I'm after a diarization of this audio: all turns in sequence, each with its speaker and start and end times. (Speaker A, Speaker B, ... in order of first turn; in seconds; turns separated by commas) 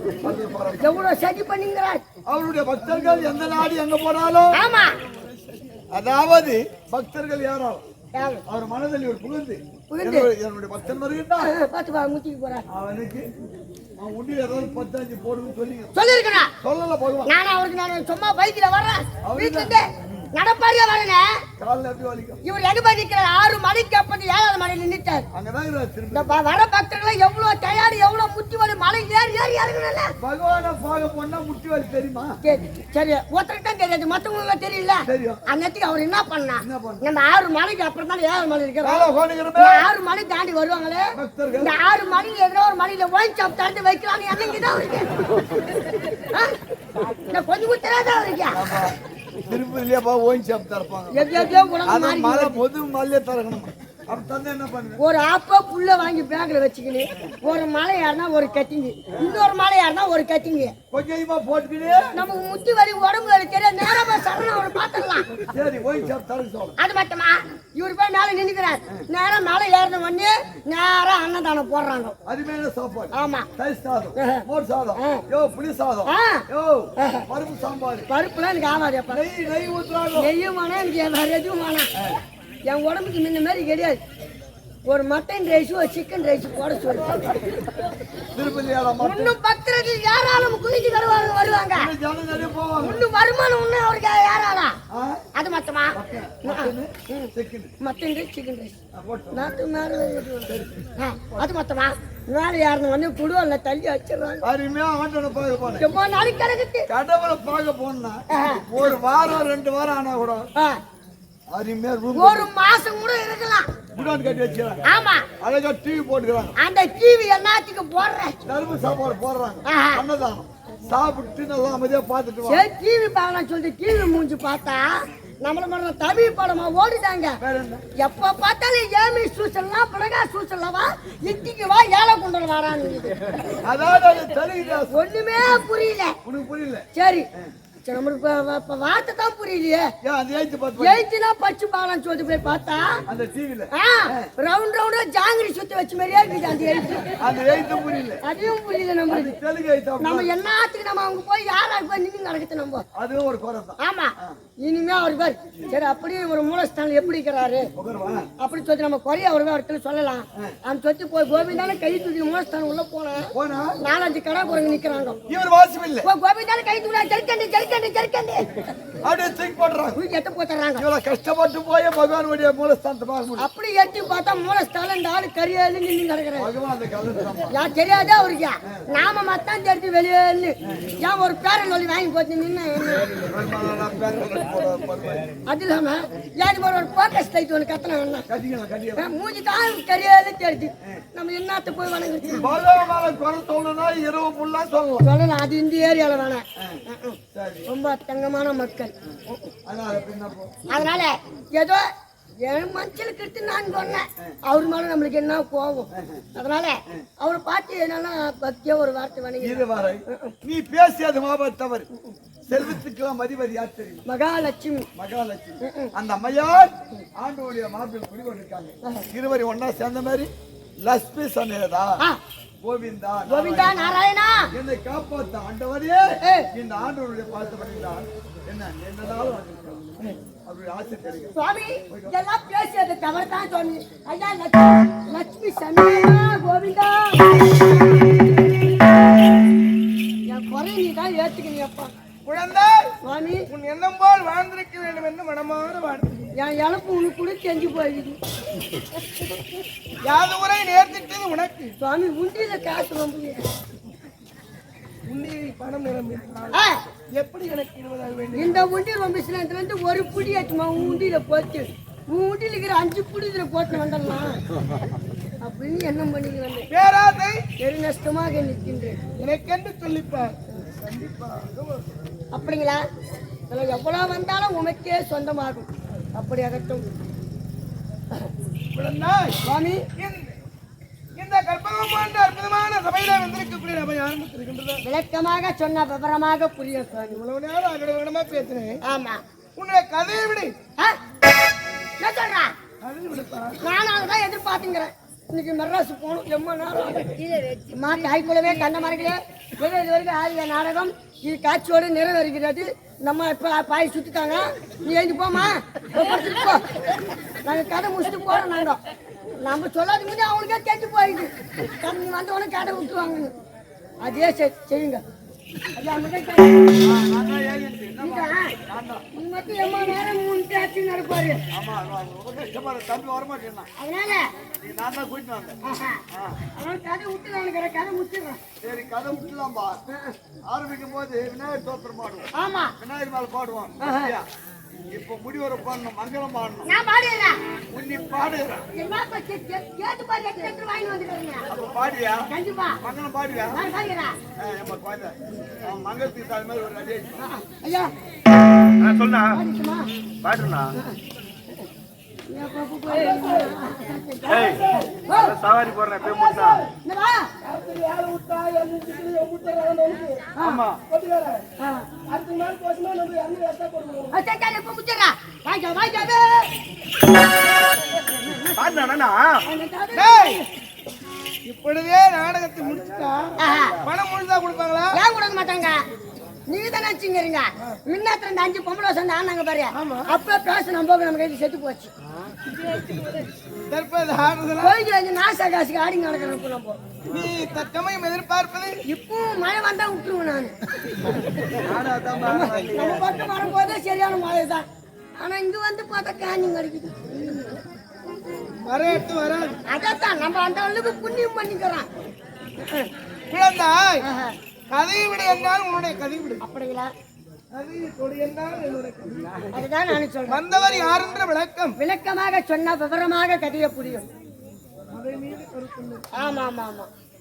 Speaker A: 0.2-1.0, Speaker B: 0.8-2.0, Speaker A: 2.3-4.6, Speaker B: 4.5-5.0, Speaker C: 5.3-5.8, Speaker A: 5.9-7.8, Speaker B: 8.1-8.4, Speaker A: 8.4-11.5, Speaker B: 9.9-10.3, Speaker B: 11.4-12.6, Speaker A: 12.7-13.3, Speaker A: 14.0-16.0, Speaker B: 15.9-16.5, Speaker A: 16.6-17.3, Speaker B: 17.2-21.4, Speaker A: 19.2-20.3, Speaker A: 21.6-22.4, Speaker B: 22.4-25.3, Speaker A: 25.3-26.4, Speaker B: 26.1-30.1, Speaker A: 30.2-32.4, Speaker B: 32.4-45.2, Speaker A: 35.0-35.4, Speaker A: 36.6-37.0, Speaker A: 38.8-39.9, Speaker A: 41.1-41.7, Speaker B: 46.3-46.5, Speaker B: 47.3-48.6, Speaker A: 48.5-51.3, Speaker B: 51.1-52.6, Speaker A: 51.8-55.0, Speaker B: 55.0-60.7, Speaker A: 59.1-59.5, Speaker A: 60.9-62.1, Speaker B: 62.1-65.3, Speaker A: 65.3-66.8, Speaker B: 66.8-72.2, Speaker A: 72.2-78.1, Speaker B: 73.1-73.5, Speaker B: 74.2-74.4, Speaker B: 75.0-75.2, Speaker B: 76.0-76.4, Speaker B: 77.0-77.2, Speaker B: 78.1-79.2, Speaker A: 79.1-80.3, Speaker B: 80.2-81.9, Speaker B: 82.7-84.0, Speaker B: 84.8-87.4, Speaker A: 88.3-89.3, Speaker B: 89.0-91.9, Speaker A: 91.7-93.0, Speaker B: 92.8-94.8, Speaker A: 94.9-95.2, Speaker B: 95.3-98.8, Speaker A: 95.9-97.7, Speaker A: 98.9-99.6, Speaker B: 99.3-104.5, Speaker A: 100.5-100.8, Speaker A: 104.4-105.9, Speaker B: 105.8-106.9, Speaker A: 106.9-110.5, Speaker B: 108.3-108.6, Speaker A: 111.5-112.5, Speaker B: 112.1-113.7, Speaker A: 114.0-114.8, Speaker B: 114.9-115.2, Speaker A: 115.4-116.5, Speaker B: 116.6-118.4, Speaker A: 118.5-122.7, Speaker B: 119.7-120.0, Speaker B: 122.5-124.9, Speaker B: 125.4-127.4, Speaker A: 127.4-127.8, Speaker B: 128.0-133.1, Speaker A: 133.6-135.0, Speaker B: 134.9-136.2, Speaker A: 136.2-137.5, Speaker B: 136.9-137.3, Speaker B: 137.8-139.9, Speaker A: 140.0-141.0, Speaker B: 140.8-143.0, Speaker A: 143.1-144.3, Speaker B: 143.7-147.1, Speaker A: 147.2-148.2, Speaker B: 148.2-149.3, Speaker A: 149.1-150.3, Speaker B: 150.0-152.8, Speaker A: 152.9-154.4, Speaker B: 153.8-157.7, Speaker A: 157.7-158.3, Speaker B: 158.4-165.2, Speaker A: 163.3-163.8, Speaker A: 165.3-166.1, Speaker B: 166.0-168.4, Speaker A: 169.0-170.0, Speaker B: 169.9-170.9, Speaker A: 170.8-173.5, Speaker B: 173.4-176.5, Speaker A: 176.4-177.6, Speaker B: 177.5-183.1, Speaker A: 183.3-185.3, Speaker B: 185.5-188.3, Speaker A: 188.3-189.0, Speaker B: 188.9-192.5, Speaker A: 192.3-195.1, Speaker B: 195.0-199.5, Speaker A: 197.3-197.7, Speaker A: 199.1-200.8, Speaker B: 200.7-201.8, Speaker B: 202.4-210.3, Speaker A: 205.9-206.2, Speaker A: 209.4-211.9, Speaker A: 212.5-214.0, Speaker B: 214.1-214.9, Speaker A: 214.9-222.0, Speaker B: 215.6-215.9, Speaker A: 222.6-224.0, Speaker B: 223.3-224.5, Speaker A: 224.5-229.9, Speaker B: 226.2-226.5, Speaker A: 230.4-231.3, Speaker B: 231.3-237.4, Speaker A: 231.9-232.2, Speaker B: 240.3-241.9, Speaker C: 242.2-242.9, Speaker B: 243.0-243.5, Speaker C: 243.5-246.3, Speaker B: 246.3-248.2, Speaker C: 250.0-251.7, Speaker B: 251.8-253.4, Speaker C: 255.1-258.6, Speaker B: 256.5-256.8, Speaker B: 258.3-264.4, Speaker B: 265.4-266.7, Speaker C: 266.7-267.4, Speaker B: 267.6-269.0, Speaker C: 269.2-271.8, Speaker B: 272.3-272.8, Speaker B: 273.5-276.8, Speaker C: 278.7-279.4, Speaker B: 279.4-279.9, Speaker C: 279.9-280.3, Speaker C: 281.2-284.8, Speaker B: 284.8-287.2, Speaker C: 287.1-288.8, Speaker B: 288.8-289.2, Speaker C: 289.6-290.5, Speaker B: 292.0-292.5, Speaker C: 292.8-293.6, Speaker B: 293.6-306.7, Speaker B: 307.4-308.8, Speaker B: 309.4-313.3, Speaker B: 314.0-315.0, Speaker B: 315.8-316.8, Speaker A: 316.8-319.0, Speaker B: 318.0-318.5, Speaker B: 319.1-321.4, Speaker A: 321.5-323.7, Speaker B: 323.8-324.2, Speaker A: 324.6-325.6, Speaker B: 325.6-326.0, Speaker A: 326.1-326.4, Speaker B: 326.5-328.4, Speaker A: 328.6-329.8, Speaker B: 329.9-330.1, Speaker A: 330.5-334.3, Speaker B: 332.3-332.7, Speaker B: 333.8-334.1, Speaker A: 334.9-336.7, Speaker B: 336.6-337.3, Speaker A: 337.7-338.7, Speaker B: 338.7-341.5, Speaker A: 341.5-342.3, Speaker B: 342.3-342.8, Speaker A: 342.8-343.6, Speaker B: 343.5-344.1, Speaker A: 344.4-347.2, Speaker B: 347.2-347.9, Speaker A: 348.8-349.4, Speaker B: 349.3-349.9, Speaker A: 350.2-350.7, Speaker B: 352.3-355.4, Speaker C: 352.9-353.5, Speaker C: 354.2-355.0, Speaker A: 354.3-356.6, Speaker C: 355.9-356.7, Speaker B: 356.8-357.3, Speaker C: 357.4-361.4, Speaker A: 360.4-360.8, Speaker B: 361.6-361.9, Speaker C: 362.1-364.1, Speaker B: 364.1-366.5, Speaker B: 367.9-368.6, Speaker A: 368.6-369.4, Speaker B: 369.5-370.5, Speaker C: 369.9-370.4, Speaker C: 371.4-375.0, Speaker B: 373.4-373.8, Speaker B: 374.9-375.8, Speaker B: 376.5-381.9, Speaker C: 379.7-380.1, Speaker C: 382.4-384.8, Speaker B: 384.6-386.8, Speaker C: 387.1-388.8, Speaker B: 388.9-391.6, Speaker A: 391.6-393.1, Speaker B: 392.2-394.6, Speaker B: 395.2-397.6, Speaker C: 398.6-399.6, Speaker B: 399.6-401.9, Speaker C: 403.3-404.1, Speaker B: 404.0-404.3, Speaker C: 404.7-406.4, Speaker B: 406.4-406.9, Speaker C: 407.5-409.5, Speaker B: 409.5-410.4, Speaker C: 410.3-411.7, Speaker B: 411.8-414.1, Speaker C: 414.9-416.1, Speaker B: 416.1-416.9